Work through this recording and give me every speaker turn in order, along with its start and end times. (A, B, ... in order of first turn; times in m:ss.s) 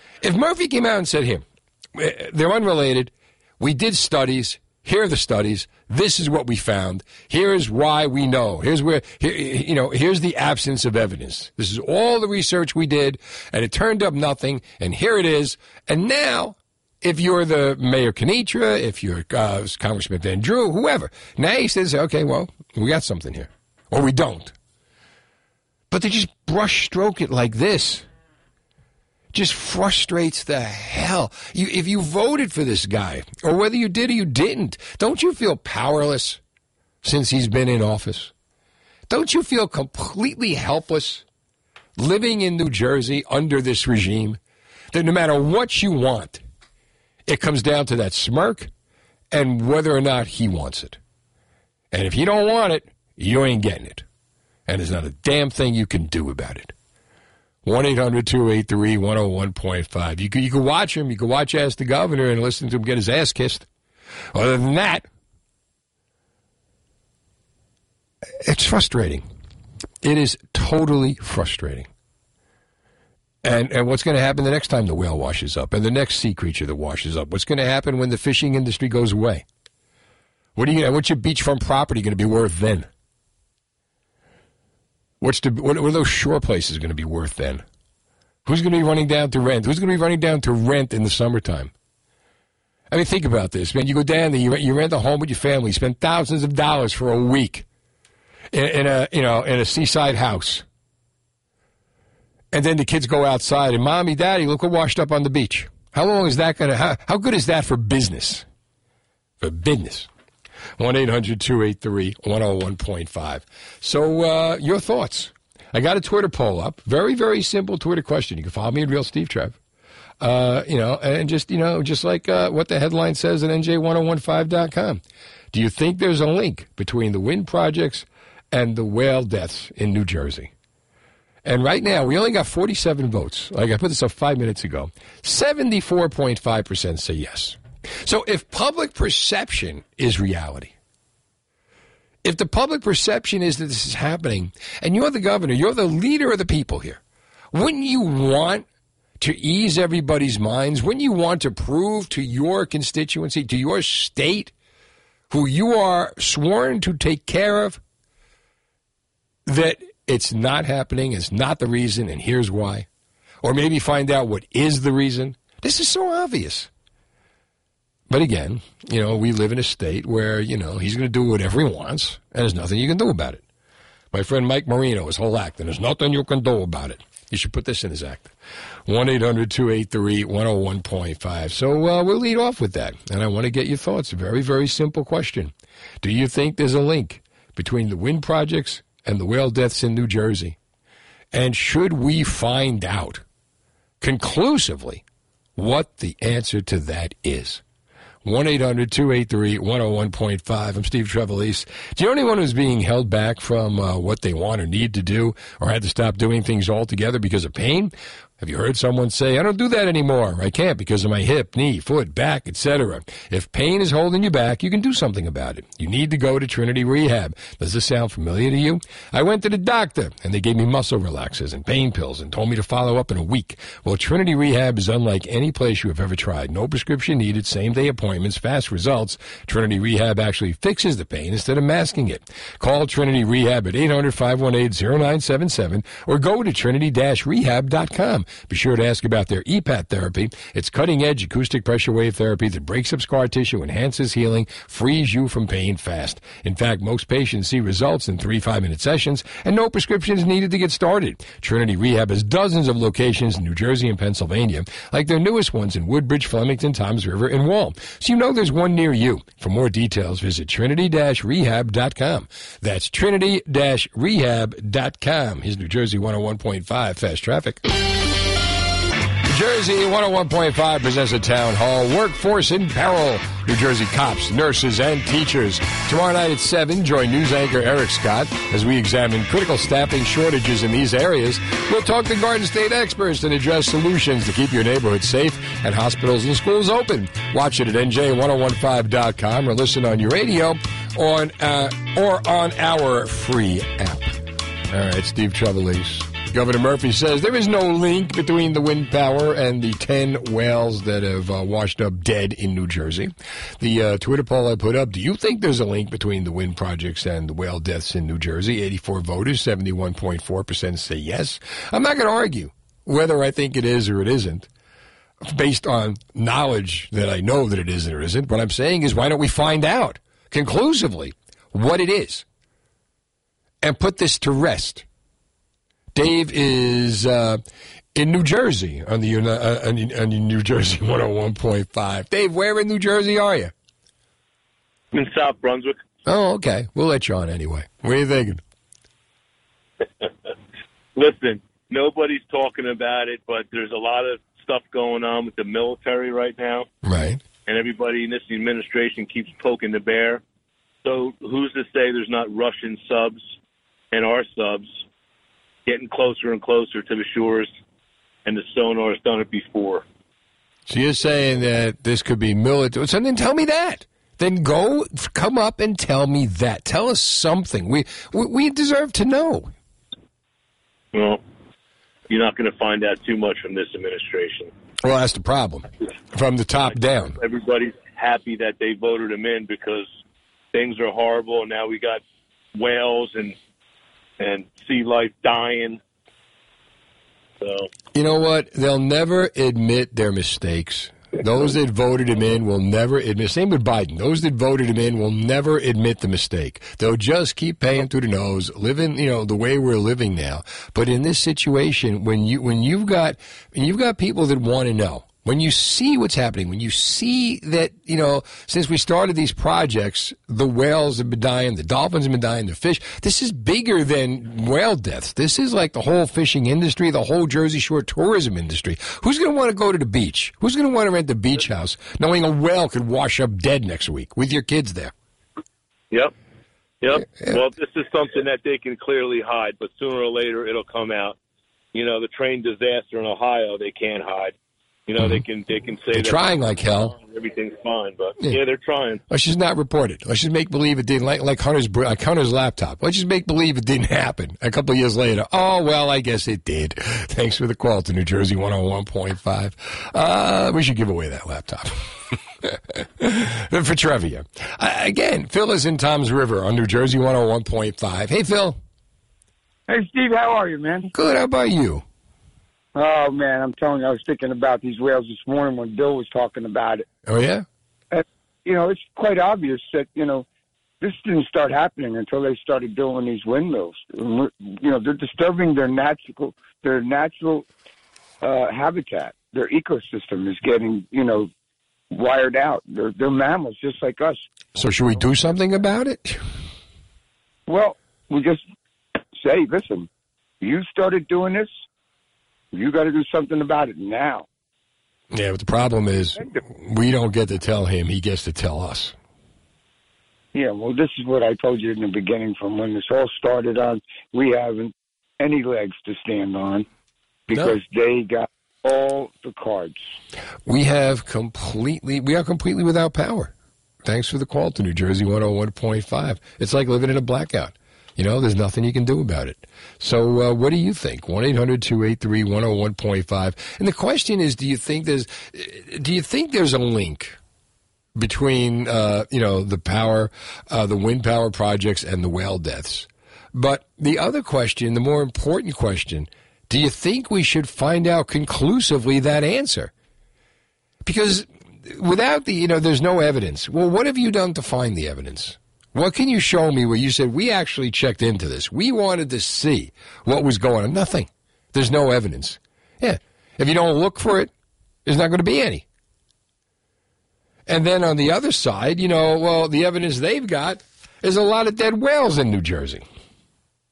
0:00.2-0:24.5 A
0:25.9-0:28.0 A
0:29.3-0:36.4 A
0:37.0-0:38.3 A
0:39.1-0:41.2 A
0:42.0-0:44.4 A
0:44.9-0:46.4 A
0:47.2-0:48.7 A
0:49.3-0:51.0 A
0:51.9-0:54.0 A
0:54.7-0:56.7 A
0:57.6-1:03.7 A
1:04.3-1:05.0 A
1:08.4-1:09.3 A
1:10.0-1:11.9 A
1:13.4-1:19.4 A
1:20.6-1:22.9 A
1:25.2-1:27.6 A
1:28.4-1:31.7 A
1:32.9-1:37.6 A
1:38.5-1:40.6 A
1:42.5-1:48.4 A
1:49.4-1:50.1 A
1:50.8-1:59.6 A
2:00.2-2:10.5 A
2:11.4-2:20.7 A
2:22.2-2:27.0 A
2:27.5-2:28.6 A
2:29.2-2:34.5 A
2:35.3-2:37.8 A
2:39.4-2:42.9 A
2:43.4-2:46.7 A
2:48.1-2:53.4 A
2:54.1-2:58.3 A
2:58.8-3:10.6 A
3:11.3-3:13.2 A
3:14.0-3:15.0 A
3:15.6-3:17.6 A
3:18.2-4:27.7 A
4:29.3-5:14.5 A
5:15.2-5:22.2 A
5:23.6-5:24.8 A
5:25.9-5:27.4 A
5:27.9-5:33.5 A
5:34.9-5:35.8 B
5:36.0-5:38.4 A
5:41.0-5:46.7 B
5:46.8-5:47.2 A
5:47.4-5:50.2 B
5:50.8-5:53.2 B
5:53.9-5:54.8 B
5:55.6-5:57.5 B
5:58.2-5:59.8 B
6:00.7-6:09.5 A
6:10.9-6:11.2 B
6:12.1-6:14.5 B
6:14.8-6:17.2 A
6:16.7-6:19.9 B
6:20.5-6:22.0 B
6:22.5-6:23.4 B
6:24.2-6:25.8 B
6:27.4-6:27.7 B
6:27.9-7:04.9 A
7:06.8-7:11.2 B
7:11.7-7:14.3 B
7:14.9-7:16.3 B
7:15.0-7:15.2 A
7:15.9-7:16.9 A
7:16.8-7:19.0 B
7:19.1-7:38.6 A
7:39.7-7:40.9 C
7:40.9-7:41.8 A
7:42.7-7:46.8 C
7:47.0-7:47.4 A
7:47.9-7:50.2 C
7:50.8-7:57.4 C
7:58.2-8:01.3 C
8:01.9-8:04.2 C
8:04.6-8:06.2 A
8:07.5-8:08.4 C
8:09.1-8:09.9 C
8:10.4-8:11.5 C
8:12.5-8:14.2 C
8:15.1-8:18.9 A
8:20.3-8:26.6 C
8:27.3-8:29.8 C
8:27.3-8:27.6 A
8:30.4-8:33.3 A
8:33.8-8:47.2 A
8:48.0-8:59.7 A
9:00.8-9:14.3 A
9:14.8-9:15.6 A
9:17.5-9:22.8 A